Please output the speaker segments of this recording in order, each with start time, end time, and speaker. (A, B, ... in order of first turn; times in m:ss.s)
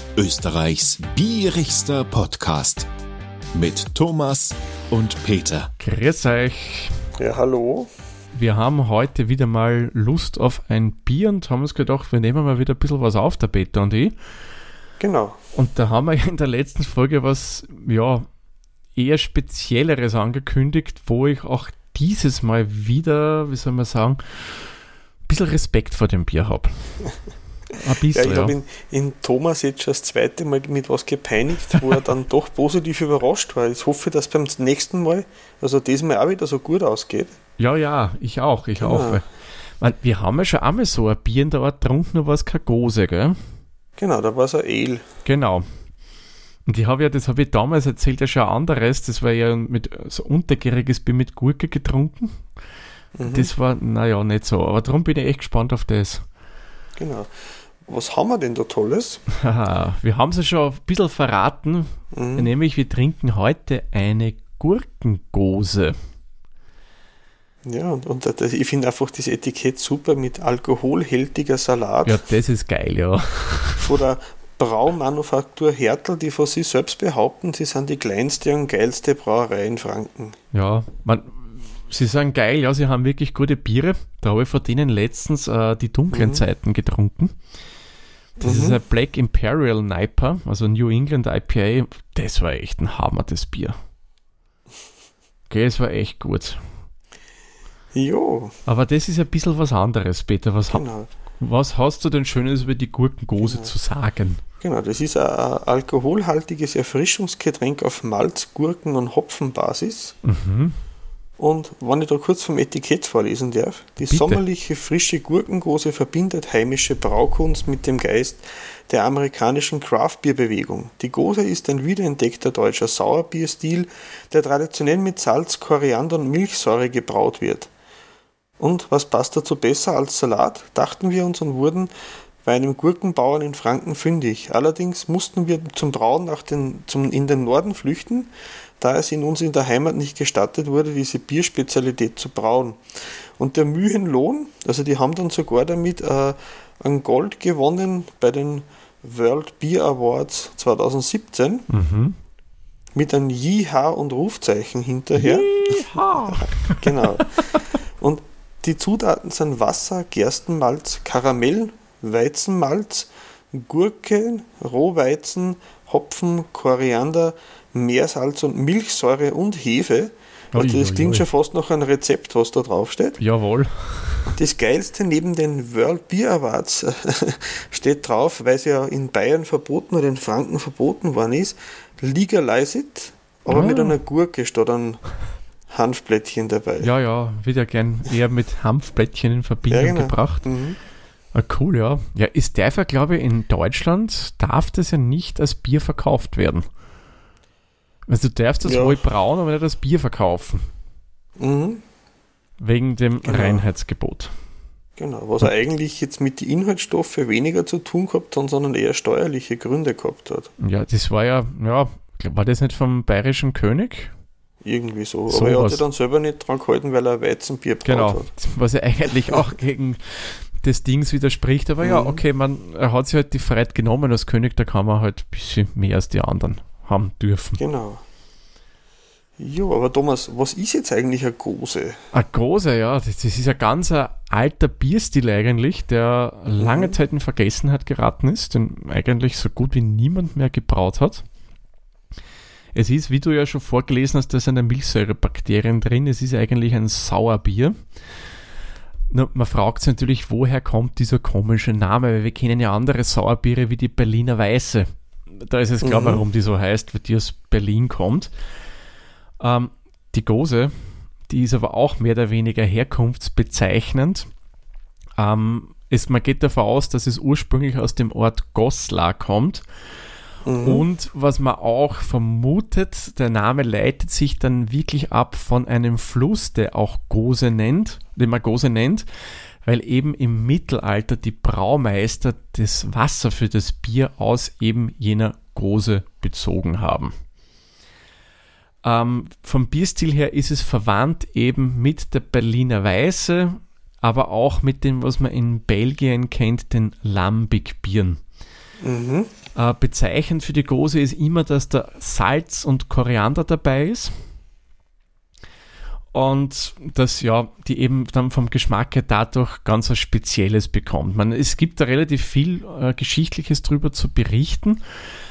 0:00.2-0:02.9 A
0:03.5-0:05.7 A
0:05.8-0:07.0 B
0:07.2-0:07.9 C
0:08.3-0:14.2 B
0:15.0-0:15.4 C
0:15.5-0:18.3 B
0:18.9-0:24.6 B
0:25.3-0:27.0 B
0:27.7-0:28.6 B
0:28.1-0:37.4 C
0:37.6-0:39.2 B
0:38.8-0:39.2 C
0:39.8-0:43.4 B
0:44.0-0:45.0 C
0:45.2-0:45.7 B
0:46.6-0:52.5 B
0:53.2-0:53.5 C
0:53.2-0:56.2 B
0:57.0-0:59.2 C
0:59.3-1:06.0 B
1:02.1-1:02.5 C
1:07.6-1:12.2 C
1:12.0-1:13.9 B
1:13.8-1:20.4 C
1:20.5-1:27.3 B
1:26.1-1:26.4 C
1:28.4-1:28.8 C
1:28.4-1:33.8 B
1:35.5-1:36.6 B
1:37.9-1:38.6 C
1:38.6-1:40.8 B
1:40.7-1:41.1 C
1:41.4-1:44.4 B
1:43.4-1:43.7 C
1:44.6-1:50.2 C
1:50.2-1:50.7 B
1:51.4-2:07.7 C
1:54.1-1:54.4 B
2:08.6-2:11.9 C
2:12.4-2:31.7 C
2:31.7-2:32.2 B
2:32.9-2:53.2 C
2:35.2-2:37.3 B
2:50.5-2:51.2 B
2:53.2-2:54.3 B
2:54.3-3:05.0 C
3:03.5-3:04.0 B
3:05.7-3:06.9 C
3:06.8-3:10.5 B
3:09.7-3:10.8 C
3:11.3-3:16.7 B
3:18.1-3:20.6 B
3:18.6-3:19.0 C
3:21.4-3:21.8 C
3:22.6-3:24.3 B
3:23.2-3:23.6 C
3:25.0-3:30.5 C
3:30.6-3:34.1 B
3:34.6-3:38.3 C
3:35.3-3:35.8 B
3:37.8-3:47.6 B
3:41.8-3:42.2 C
3:47.6-3:48.0 C
3:49.4-3:52.0 C
3:52.1-4:01.2 B
3:56.6-3:57.0 C
4:02.7-4:07.8 B
4:09.1-4:18.3 B
4:15.8-4:16.2 C
4:19.4-4:20.7 B
4:21.3-4:24.3 B
4:25.2-4:29.6 B
4:30.4-4:30.8 C
4:30.6-4:39.0 B
4:39.6-4:47.1 B
4:48.8-4:58.2 B
4:58.8-4:59.3 C
4:59.5-5:04.1 B
5:06.1-5:14.8 B